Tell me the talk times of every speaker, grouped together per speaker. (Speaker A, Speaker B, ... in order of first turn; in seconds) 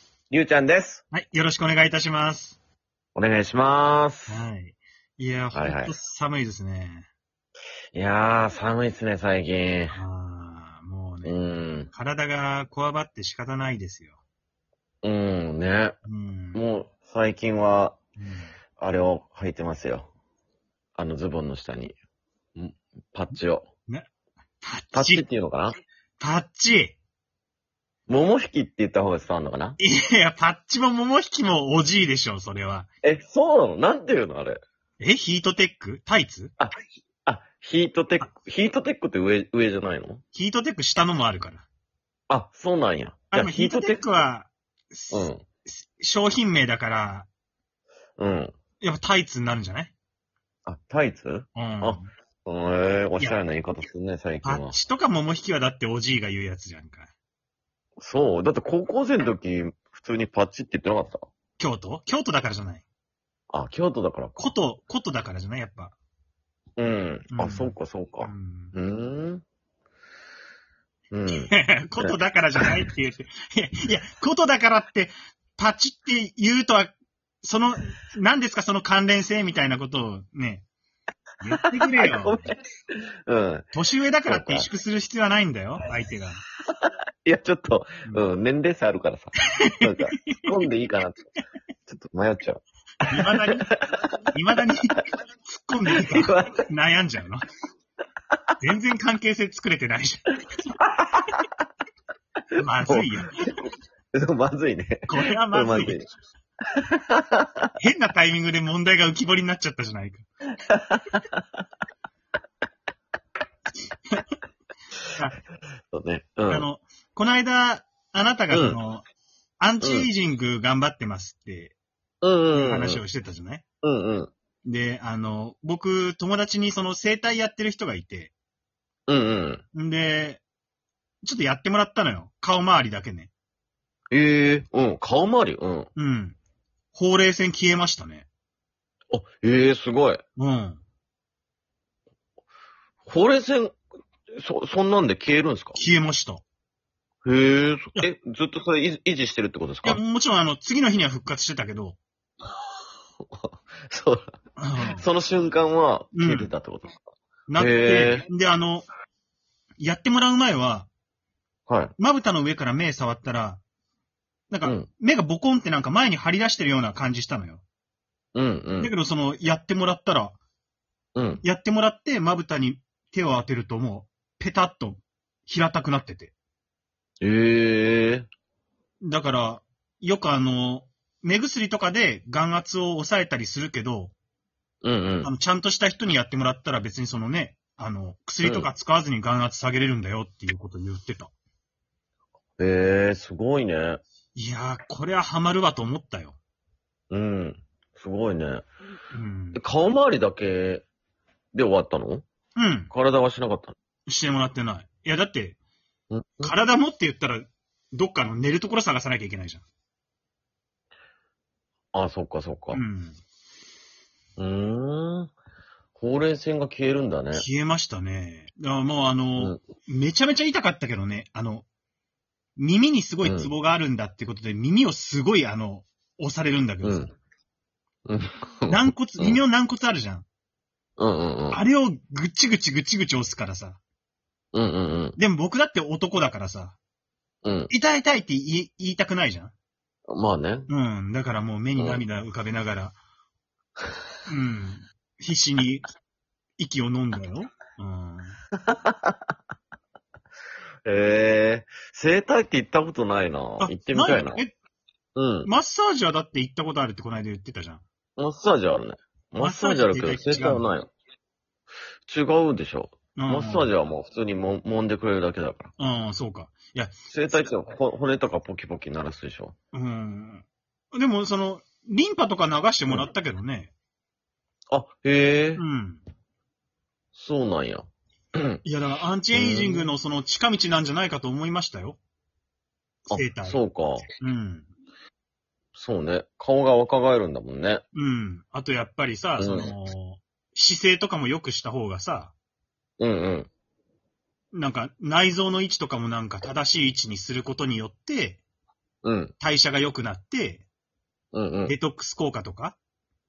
Speaker A: 0.3-1.0, 3.1-4.5, 5.5-5.9, 7.9-10.0, 11.2-11.9, 15.0-16.0, 16.5-18.0, 18.8-20.1, 21.0-21.9, 22.6-23.7, 24.9-25.8, 28.1-29.8, 33.0-34.6, 37.3-40.2, 42.3-44.0, 45.1-45.4, 48.2-48.5, 50.7-54.8, 58.0-61.2, 63.5-64.5, 66.8-69.4, 71.1-72.8, 81.5-83.7, 84.3-84.7, 86.8-91.2, 91.9-94.0, 96.0-96.6, 101.1-101.4, 102.6-103.1, 104.1-106.1, 106.8-107.7, 110.7-111.4, 115.9-116.7, 118.5-118.8, 119.8-120.1, 122.2-123.0, 123.8-124.3, 129.1-129.6, 134.1-135.9, 139.1-140.2, 143.1-143.8, 144.3-145.8, 147.2-150.0, 153.2-154.3, 154.8-156.9, 157.6-158.2, 161.7-161.9, 168.3-168.9, 171.1-171.4, 177.2-178.3, 184.8-185.3, 188.4-188.7, 192.6-194.0, 197.1-198.6, 199.6-200.9, 201.5-202.2, 202.9-203.8, 206.1-206.5, 211.9-212.8, 214.4-215.3, 216.0-217.4, 223.2-223.5, 226.8-227.1, 228.1-229.4, 231.0-231.6, 234.5-235.2, 237.4-237.7, 240.1-240.7, 241.8-242.0, 248.6-249.2, 250.8-254.4, 255.1-255.5, 258.2-260.9, 262.1-265.7, 267.1-269.5, 274.7-275.6, 277.1-278.6, 279.3-279.9, 283.1-284.1, 285.8-287.8, 289.4-289.7, 293.0-293.5, 299.0-299.3, 301.3-301.8
Speaker B: 1.1-2.6, 4.3-7.1, 9.9-11.4, 11.9-14.2, 16.1-16.6, 18.2-18.5, 24.6-25.2, 26.2-26.9, 29.8-32.9, 35.0-36.5, 40.3-41.7, 43.3-47.3, 48.8-49.9, 51.5-52.1, 54.4-57.1, 61.6-62.8, 64.4-65.9, 67.3-68.7, 71.3-80.6, 81.4-82.5, 83.7-86.4, 89.6-90.5, 93.1-93.7, 94.3-97.4, 98.6-100.8, 102.6-103.5, 105.1-106.0, 107.8-110.2, 116.5-119.0, 119.6-121.8, 122.5-123.6, 124.6-128.3, 129.7-130.4, 131.2-133.3, 135.9-136.4, 136.9-138.3, 140.4-140.8, 145.8-146.4, 149.8-152.0, 154.6-155.1, 156.1-156.5, 157.5-158.9, 159.8-160.9, 162.0-163.6, 164.5-167.6, 168.8-170.4, 171.4-176.3, 179.0-184.1, 185.2-191.3, 194.3-196.4, 199.1-199.6, 202.6-202.9, 204.1-205.6, 206.4-209.6, 212.7-213.2, 217.3-221.7, 222.6-227.1, 228.7-230.2, 231.5-233.8, 235.2-236.8, 237.7-239.5, 240.7-242.9, 244.3-245.8, 246.6-248.4, 253.6-254.5, 255.4-257.8, 259.4-260.6, 263.1-263.7, 265.8-267.5, 269.7-273.7, 275.6-276.0, 278.6-282.0, 283.1-283.6, 284.2-284.7, 287.9-292.3, 294.5-298.4, 299.4-300.6, 301.6-302.8